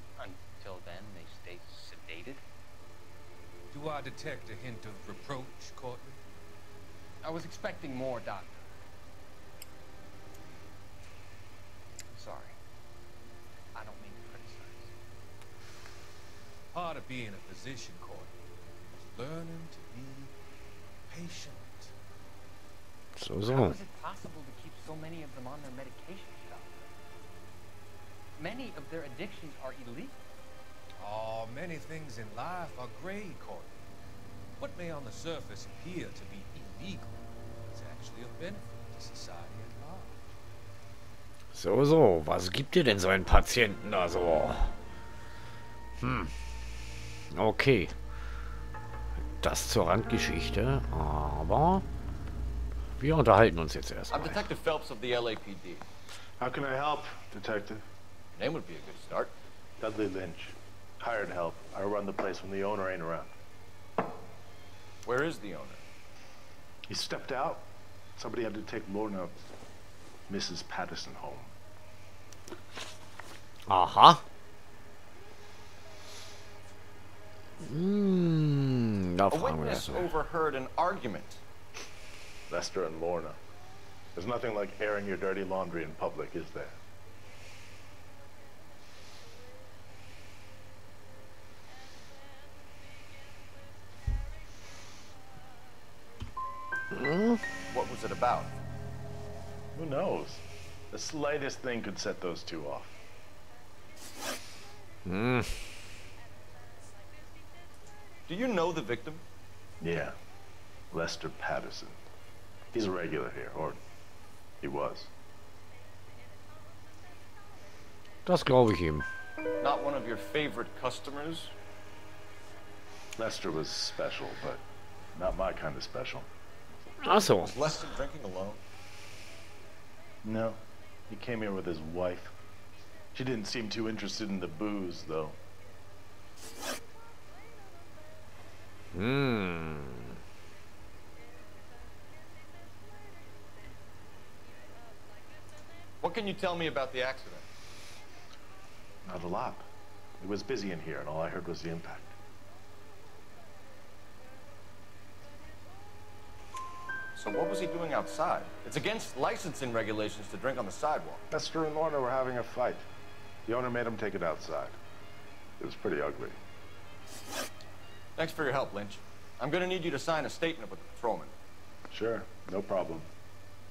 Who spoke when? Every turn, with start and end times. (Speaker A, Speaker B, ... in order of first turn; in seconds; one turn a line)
Speaker A: 0.2-2.4
Speaker B: 3.7-6.2
Speaker A: 7.3-8.7
Speaker A: 12.1-12.6
Speaker A: 13.7-14.9
Speaker B: 16.7-18.3
Speaker B: 19.0-20.3
Speaker B: 21.1-21.9
Speaker C: 23.2-23.8
Speaker A: 23.4-26.9
Speaker A: 28.4-30.3
Speaker B: 31.0-33.9
Speaker B: 34.6-40.2
Speaker C: 41.5-44.8
Speaker C: 46.0-46.4
Speaker C: 47.3-48.0
Speaker C: 49.4-51.9
Speaker C: 53.0-54.5
Speaker D: 54.1-55.9
Speaker E: 56.4-57.8
Speaker D: 58.4-59.3
Speaker E: 59.8-63.3
Speaker D: 65.0-65.8
Speaker E: 66.9-69.3
Speaker E: 70.3-71.5
Speaker C: 73.7-74.2
Speaker C: 77.6-80.1
Speaker D: 79.3-81.4
Speaker E: 82.5-83.4
Speaker E: 84.2-86.8
Speaker C: 96.9-97.4
Speaker D: 97.7-98.5
Speaker E: 99.8-103.0
Speaker C: 105.0-105.7
Speaker D: 108.3-109.2
Speaker E: 109.8-110.2
Speaker E: 110.9-112.0
Speaker E: 112.7-113.8
Speaker E: 114.6-115.1
Speaker C: 118.3-119.1
Speaker D: 119.6-121.5
Speaker E: 123.2-124.6
Speaker E: 125.1-126.3
Speaker C: 127.0-127.8
Speaker D: 127.2-128.6
Speaker E: 130.2-132.3
Speaker E: 133.1-135.4
Speaker C: 138.9-140.2
Speaker D: 146.0-147.4
Speaker E: 149.1-149.7
Speaker E: 150.2-152.2
Speaker D: 157.2-161.2
Speaker E: 161.3-162.8
Speaker E: 163.5-164.8
Speaker E: 165.6-166.4
Speaker D: 168.2-171.3
Speaker E: 171.9-173.1